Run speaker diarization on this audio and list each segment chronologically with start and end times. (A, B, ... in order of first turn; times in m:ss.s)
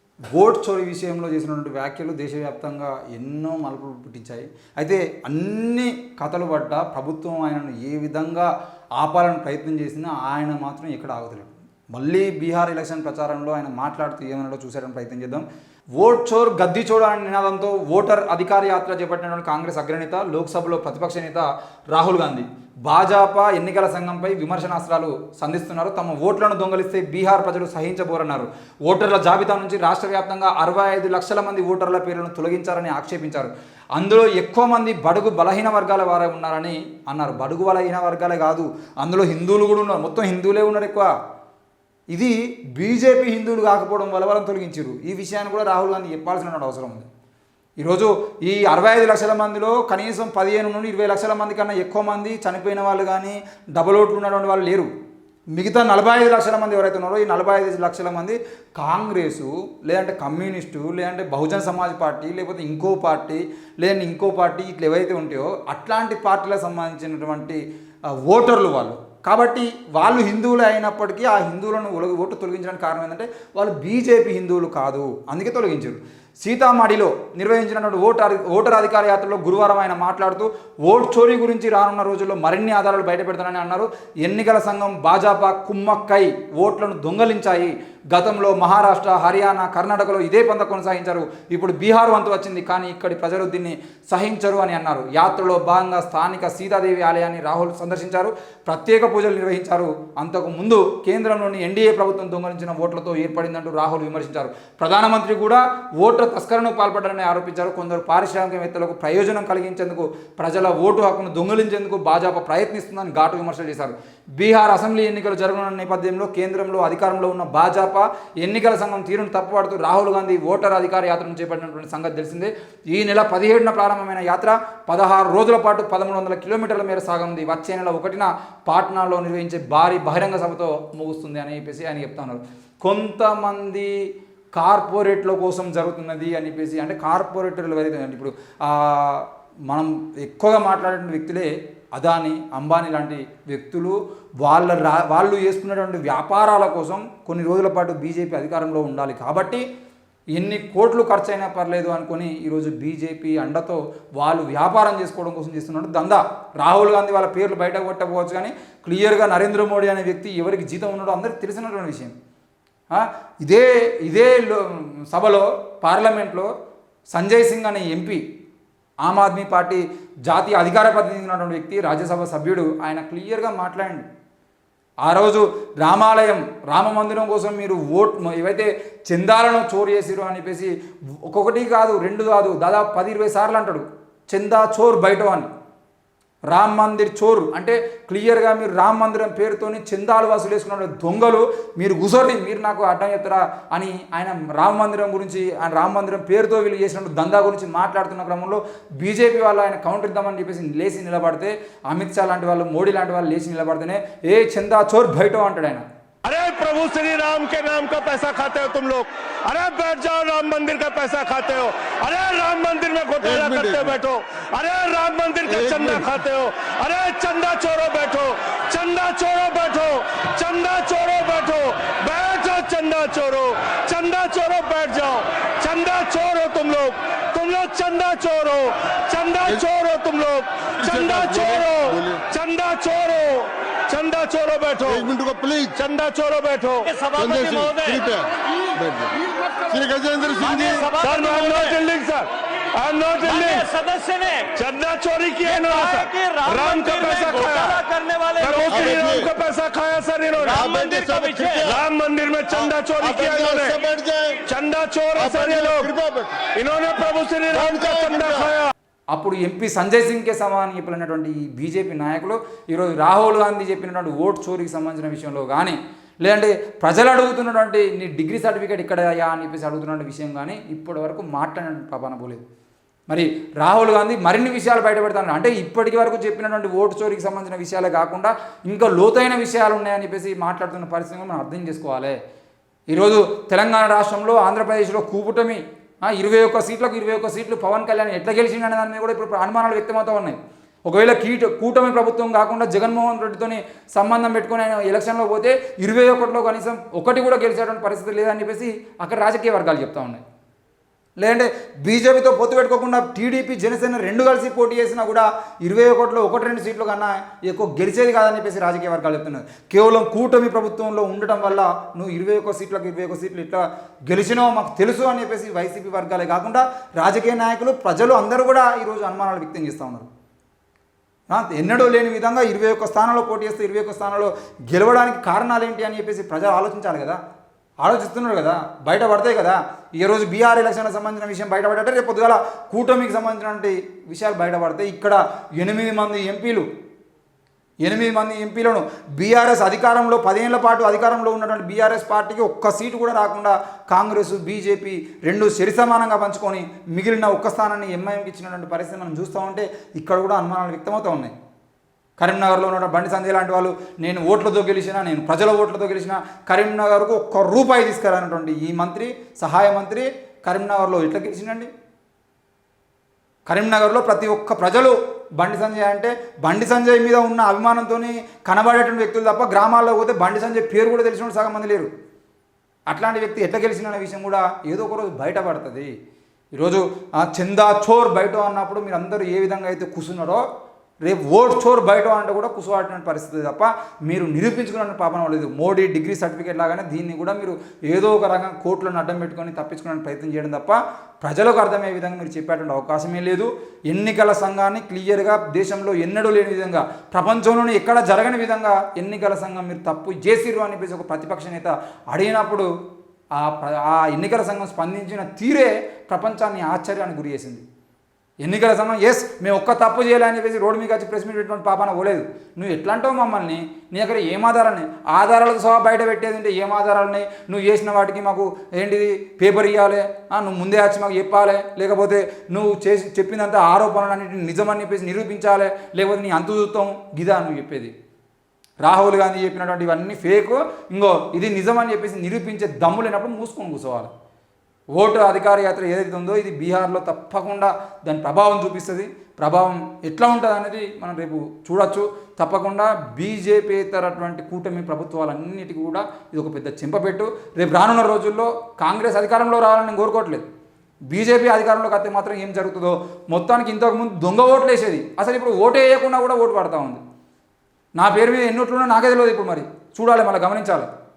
0:00.3-0:15.4 A
0:16.0-0:41.1 A
0:42.1-0:47.1 A
0:47.8-0:54.9 A
0:55.5-1:07.6 A
1:08.1-2:13.9 A
2:14.6-2:29.6 A
2:30.3-2:42.2 A
2:42.9-2:46.5 A
2:47.1-2:48.2 A
2:49.0-2:54.0 A
2:55.0-3:00.7 A
3:01.3-3:05.5 A
3:06.5-3:25.8 A
3:26.2-3:55.1 B
3:33.2-3:33.9 C
3:35.5-3:36.1 C
3:50.8-3:52.2 C
3:54.9-3:55.8 C
3:55.8-3:56.9 B
3:56.9-3:58.0 D
3:57.2-4:00.9 C
4:00.4-4:01.8 D
4:00.9-4:03.7 B
4:03.2-4:04.5 D
4:04.5-4:07.8 B
4:05.4-4:08.9 D
4:08.4-4:10.6 B
4:08.7-4:09.3 C
4:10.4-4:11.7 D
4:10.6-4:11.8 C
4:11.6-4:13.8 B
4:12.7-4:14.4 C
4:14.4-4:15.9 B
4:15.2-4:16.4 C
4:16.6-4:18.7 B
4:17.5-4:18.5 C
4:19.1-4:32.4 A
4:33.1-4:42.2 A
4:42.9-5:00.2 A
5:01.2-5:20.1 A
5:21.3-5:27.2 A
5:27.8-5:36.7 A
5:37.8-5:51.3 A
5:52.2-6:01.7 A
6:03.5-6:11.9 A
6:12.9-6:15.9 A
6:16.5-6:20.4 A
6:21.0-6:42.7 A
6:43.4-6:47.6 A
6:48.4-7:07.9 A
7:08.8-7:14.1 A
7:15.0-7:30.4 A
7:31.1-7:37.0 A
7:38.0-7:40.9 A